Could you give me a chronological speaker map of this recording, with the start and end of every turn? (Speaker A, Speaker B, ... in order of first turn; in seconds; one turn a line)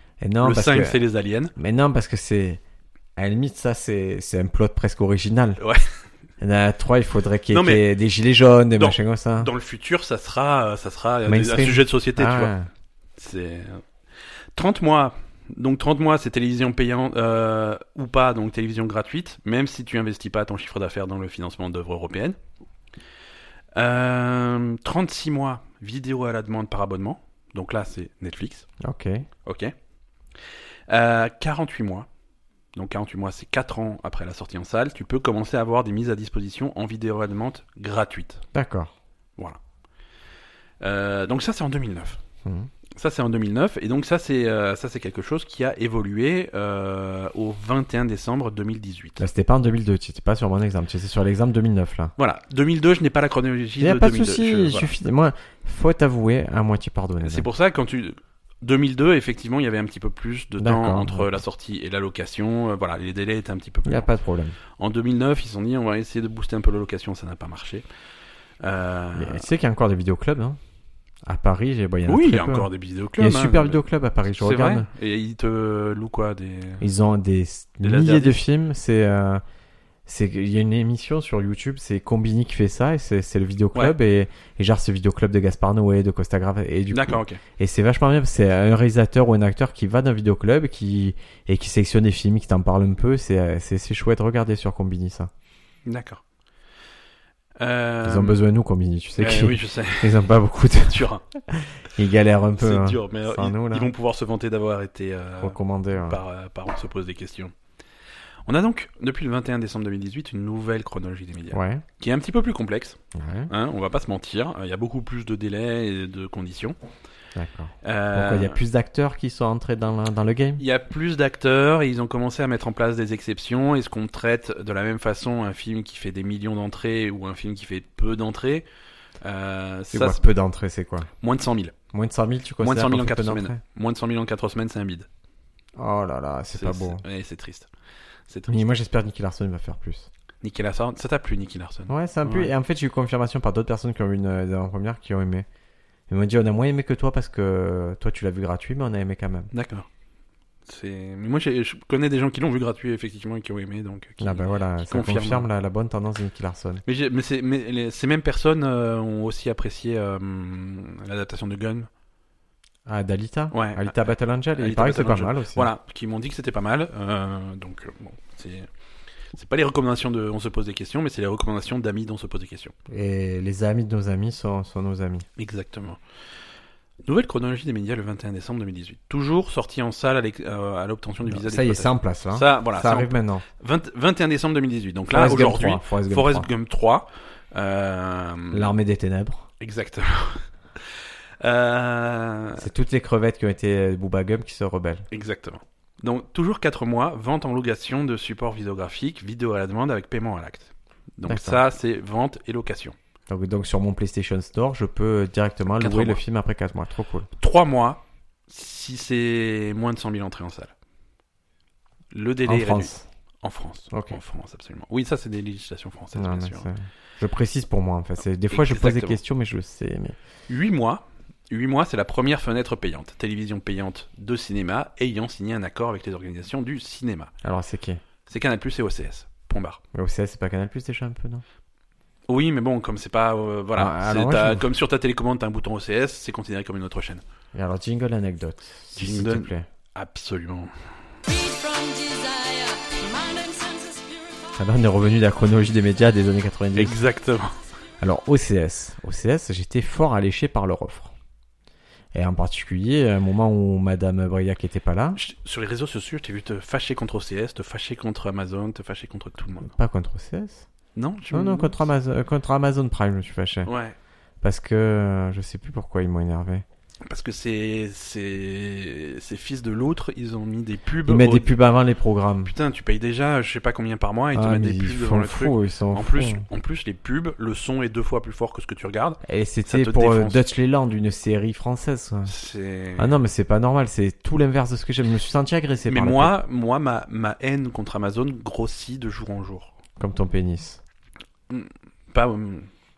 Speaker A: 0.2-1.0
Speaker B: 0.4-1.5
Speaker A: 1.6-2.6
Speaker A: 3.2-5.6
Speaker B: 5.6-5.9
Speaker A: 6.4-9.5
Speaker B: 7.5-7.8
Speaker B: 8.8-12.5
Speaker A: 11.2-12.7
Speaker B: 13.2-13.8
Speaker B: 14.6-22.4
Speaker B: 23.8-28.7
Speaker A: 28.8-29.3
Speaker B: 29.4-29.7
Speaker B: 30.9-32.1
Speaker B: 32.7-38.4
Speaker A: 38.5-38.9
Speaker B: 40.8-42.2
Speaker A: 42.4-42.7
Speaker B: 43.0-49.2
Speaker A: 49.2-52.1
Speaker B: 52.2-54.9
Speaker A: 53.8-57.5
Speaker B: 57.2-64.1
Speaker A: 60.6-61.3
Speaker A: 63.9-64.6
Speaker B: 64.8-67.8
Speaker B: 68.6-69.5
Speaker A: 69.1-70.6
Speaker A: 71.2-74.9
Speaker B: 72.1-76.8
Speaker A: 76.8-79.4
Speaker B: 77.8-78.4
Speaker A: 80.0-95.3
Speaker B: 86.9-87.4
Speaker B: 95.8-96.2
Speaker B: 97.6-98.4
Speaker A: 98.0-103.9
Speaker B: 99.2-100.2
Speaker B: 100.9-101.2
Speaker B: 102.6-107.5
Speaker A: 105.4-106.2
Speaker B: 108.5-116.8
Speaker A: 111.5-111.8
Speaker A: 113.1-113.5
Speaker A: 117.3-120.6
Speaker B: 117.8-118.6
Speaker B: 120.6-128.7
Speaker B: 129.2-130.2
Speaker A: 129.9-131.1
Speaker B: 131.2-131.7
Speaker A: 131.9-133.6
Speaker B: 132.6-135.1
Speaker A: 135.8-137.0
Speaker B: 136.5-137.7
Speaker B: 138.3-138.6
Speaker A: 138.5-140.1
Speaker B: 140.4-142.5
Speaker A: 141.9-145.4
Speaker A: 146.1-149.5
Speaker B: 149.5-149.9
Speaker B: 150.7-155.5
Speaker A: 154.2-156.8
Speaker B: 156.8-161.9
Speaker A: 162.8-165.7
Speaker B: 163.5-168.7
Speaker B: 169.3-172.7
Speaker A: 172.9-175.3
Speaker B: 175.4-176.0
Speaker B: 177.0-188.7
Speaker A: 181.3-183.4
Speaker A: 185.1-186.5
Speaker A: 188.5-189.5
Speaker B: 189.6-190.4
Speaker B: 191.4-192.7
Speaker A: 192.6-195.1
Speaker B: 195.1-202.9
Speaker A: 201.2-201.6
Speaker A: 203.3-207.3
Speaker B: 205.8-206.2
Speaker B: 207.4-210.7
Speaker B: 212.1-216.7
Speaker A: 212.4-213.1
Speaker A: 213.9-214.2
Speaker A: 216.2-220.2
Speaker B: 218.5-219.2
Speaker B: 220.5-227.3
Speaker A: 227.4-228.0
Speaker B: 228.3-229.8
Speaker A: 229.9-231.4
Speaker B: 232.3-237.2
Speaker A: 233.8-234.6
Speaker A: 237.5-239.7
Speaker B: 238.9-240.7
Speaker C: 241.3-244.7
Speaker A: 244.6-247.0
Speaker B: 246.8-247.6
Speaker A: 248.0-251.1
Speaker A: 252.1-255.2
Speaker B: 255.2-259.7
Speaker A: 259.6-260.7
Speaker B: 260.9-261.8
Speaker A: 261.3-263.7
Speaker B: 263.6-263.9
Speaker A: 264.4-266.6
Speaker B: 267.1-271.5
Speaker A: 271.0-272.5
Speaker B: 272.4-280.4
Speaker A: 274.3-276.4
Speaker A: 279.2-282.3
Speaker B: 282.2-283.1
Speaker A: 283.0-286.3
Speaker B: 285.9-289.8
Speaker A: 290.0-290.8
Speaker B: 291.5-292.7